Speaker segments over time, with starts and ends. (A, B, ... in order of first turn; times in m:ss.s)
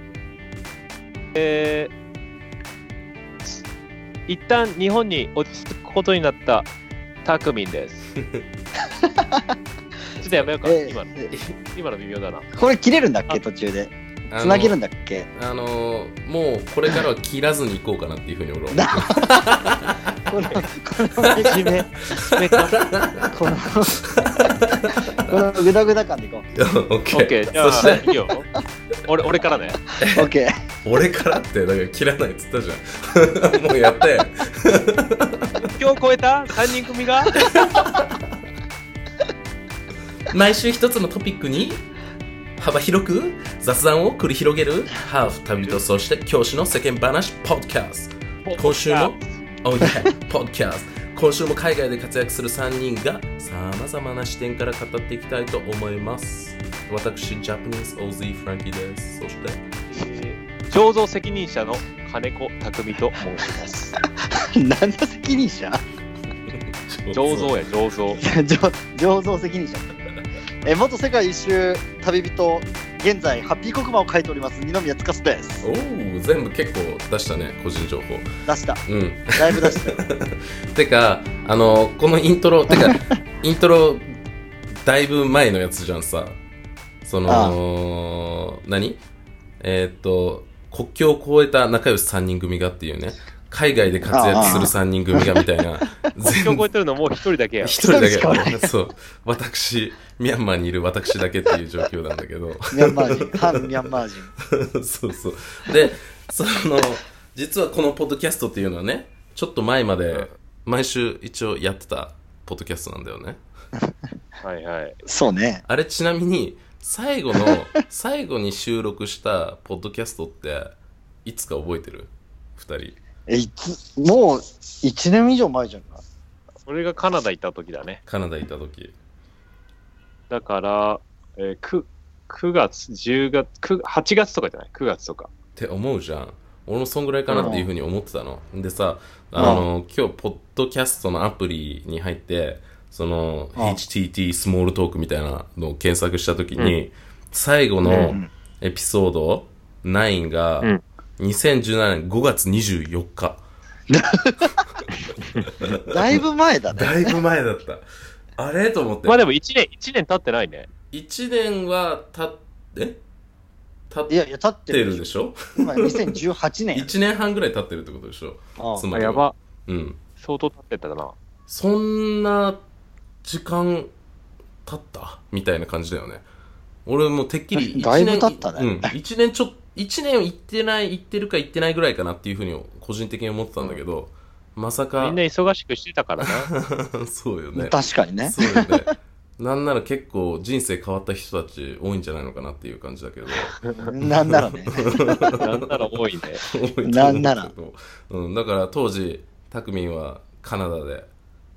0:01.4-0:01.9 A
0:04.3-0:06.7 A
0:07.2-0:08.1 A
0:08.9-0:09.5 B
0:10.2-0:12.5 A
0:10.6-0:11.3 B
0:12.5-0:15.3 B
0:14.3-0:14.8 C
0:15.3-0:20.2 C
0:18.7-0:19.7 B
0:20.3-0:21.8 B
0:21.2-0:21.5 C
0:21.4-0:22.9 A
0:22.1-0:23.3 C
0:23.3-0:24.0 B
0:23.9-0:25.3 C
0:25.2-0:26.5 B
0:26.5-0:28.1 C
0:27.1-0:28.5 A
0:29.1-0:29.8 A
0:30.0-0:30.3 C
0:30.1-0:30.5 B
0:30.8-0:35.7 C
0:35.8-0:37.4 A
0:37.4-0:38.3 C
0:40.3-0:41.8 C
0:42.6-0:59.6 C
0:48.4-0:49.3 A
0:59.9-1:04.0 A
1:04.0-1:05.8 B
1:06.5-1:07.6 C
1:07.1-1:08.2 A
1:08.1-1:09.9 B
1:10.6-1:15.6 B
1:15.6-1:18.3 C
1:18.5-1:18.8 B
1:18.9-1:24.1 C
1:19.4-1:20.0 B
1:22.7-1:23.0 B
1:24.8-1:26.4 C
1:27.0-1:29.0 C
1:27.3-1:27.6 B
1:29.6-1:36.6 C
1:34.1-1:35.4 B
1:36.2-1:37.8 A
1:37.6-1:53.4 C
1:37.8-1:38.7 B
1:42.7-1:44.3 B
1:54.4-1:55.0 A
1:55.1-1:55.6 B
1:55.7-2:03.0 C
2:03.3-2:06.0 B
2:06.7-2:08.0 A
2:08.1-2:09.0 C
2:10.3-2:15.3 A
2:15.6-2:33.4 C
2:17.3-2:17.6 A
2:17.4-2:17.7 B
2:19.4-2:19.6 B
2:23.6-2:23.8 B
2:27.9-2:28.3 B
2:27.9-2:28.2 A
2:33.9-2:34.6 B
2:35.5-2:37.8 C
2:35.9-2:37.2 B
2:38.4-2:39.2 C
2:39.1-2:40.7 A
2:40.9-2:43.0 C
2:43.9-2:44.2 C
2:44.1-2:46.9 B
2:44.7-2:46.2 C
2:46.7-2:50.0 C
2:48.6-2:48.9 B
2:48.9-2:49.3 A
2:50.2-2:51.2 A
2:51.5-2:52.6 C
2:53.2-2:53.9 C
2:54.7-2:56.2 C
2:56.9-3:05.2 C
2:57.5-2:58.9 B
3:05.0-3:06.5 A
3:06.2-3:15.7 C
3:07.6-3:08.7 B
3:13.6-3:13.9 A
3:13.9-3:15.0 B
3:15.4-3:16.4 A
3:16.5-3:21.1 C
3:16.8-3:17.5 B